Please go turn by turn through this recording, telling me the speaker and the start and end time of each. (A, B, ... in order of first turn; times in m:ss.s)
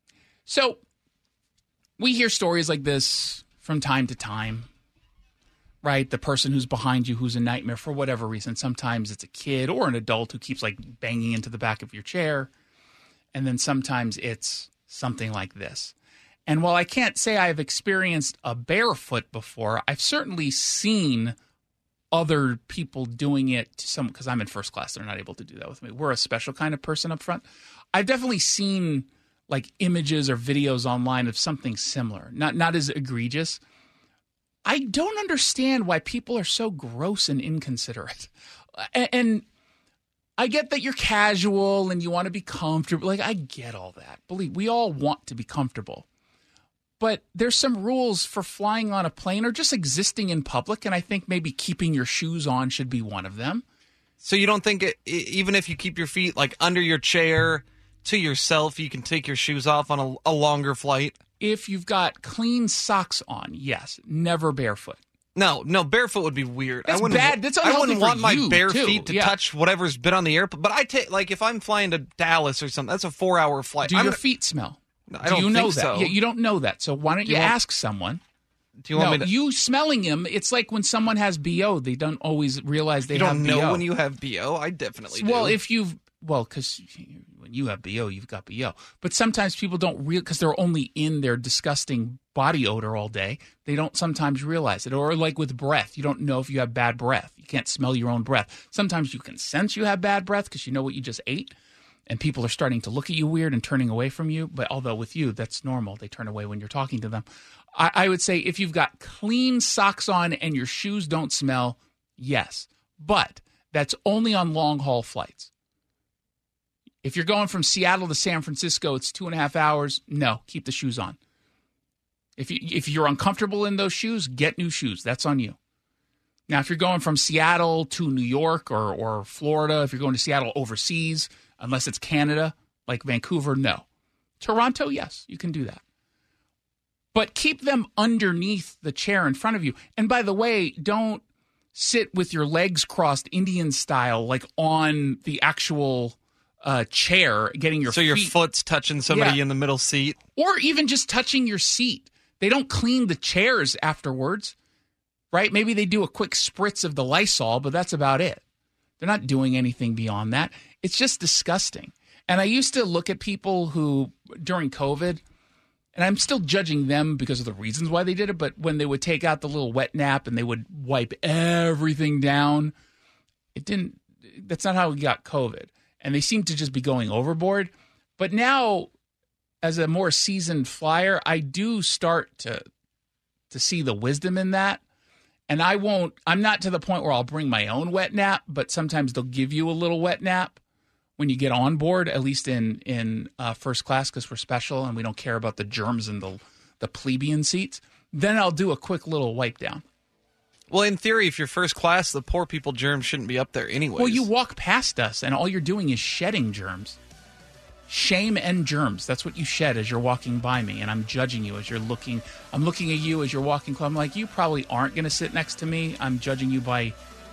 0:00.5-0:00.8 A
0:02.0-0:04.7 A
0:05.8-0:12.5 A
0:13.3-0:15.9 A
0:16.5-0:21.4 A
0:22.1-0:33.6 A
0:34.6-0:39.4 A
0:40.4-0:46.0 A
0:47.0-0:53.6 A
0:54.2-1:01.2 B
1:01.4-1:05.0 A
1:05.3-1:14.2 B
1:06.8-1:09.3 A
1:13.8-1:18.2 A
1:15.1-1:16.1 B
1:17.3-1:17.5 B
1:18.8-1:19.3 B
1:18.9-1:23.8 A
1:23.1-1:25.6 B
1:25.1-1:41.5 A
1:42.1-1:55.5 A
1:57.0-2:01.2 A
2:02.4-2:05.6 A
2:06.5-2:13.8 A
2:14.4-2:15.8 A
2:17.1-2:21.2 A
2:21.7-2:28.3 A
2:27.9-2:30.2 B
2:29.1-2:29.4 A
2:30.4-2:34.5 A
2:35.3-2:38.4 A
2:39.0-2:45.2 A
2:45.9-2:52.7 A
2:53.5-2:58.9 A
2:59.6-3:02.6 A
3:03.5-3:04.8 A
3:05.5-3:10.6 A
3:11.2-3:19.8 A
3:20.7-3:24.2 B
3:24.0-3:27.0 A
3:27.9-3:37.0 A